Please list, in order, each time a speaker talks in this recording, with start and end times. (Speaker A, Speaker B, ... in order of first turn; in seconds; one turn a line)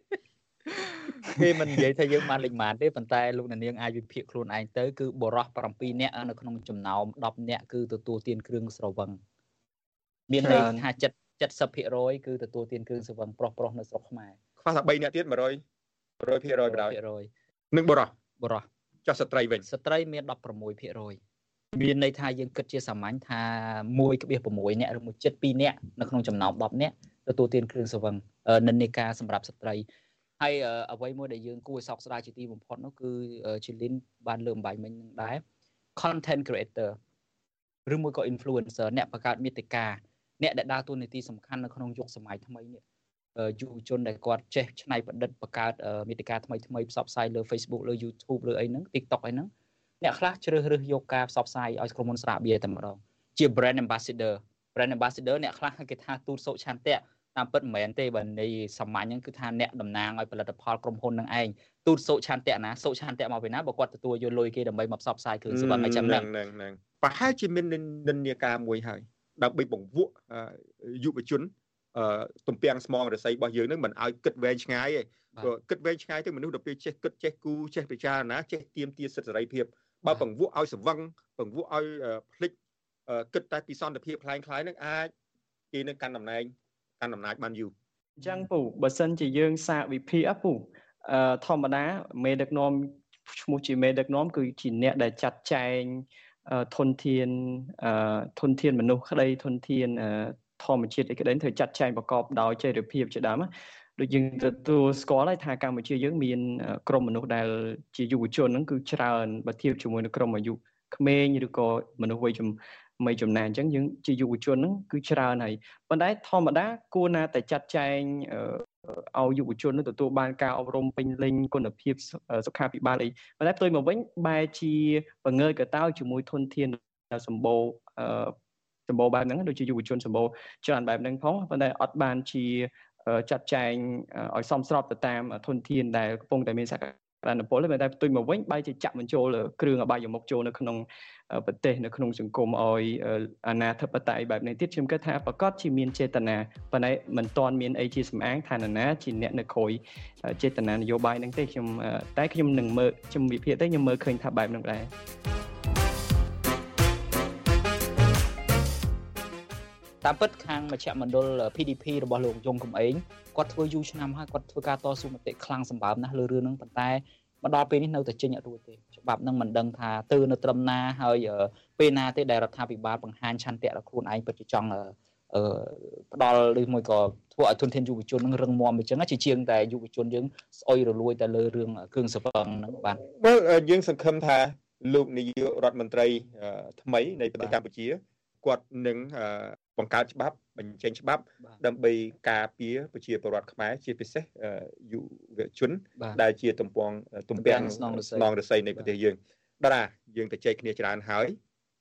Speaker A: 0.7-9.2
Speaker A: 10.3-14.4
Speaker B: 10.4-10.8
Speaker C: 14.6-15.6
Speaker C: 16.2-17.0
Speaker A: 16.7-17.3
Speaker C: 17.7-18.1
Speaker A: 18.4-18.7
Speaker C: 19.1-19.6
Speaker A: 19.6-21.2
Speaker A: 21.7-29.9
Speaker A: 30.4-35.4
Speaker A: 36.0-37.0
Speaker A: 37.9-42.8
Speaker A: 43.4-49.5
Speaker A: 50.0-66.3
Speaker C: 65.5-82.6
Speaker C: 83.1-85.1
Speaker C: 85.7-87.7
Speaker B: 88.2-128.3
Speaker B: 128.9-154.9
Speaker A: 160.0-183.0
Speaker C: 183.1-201.4
Speaker A: 197.4-198.9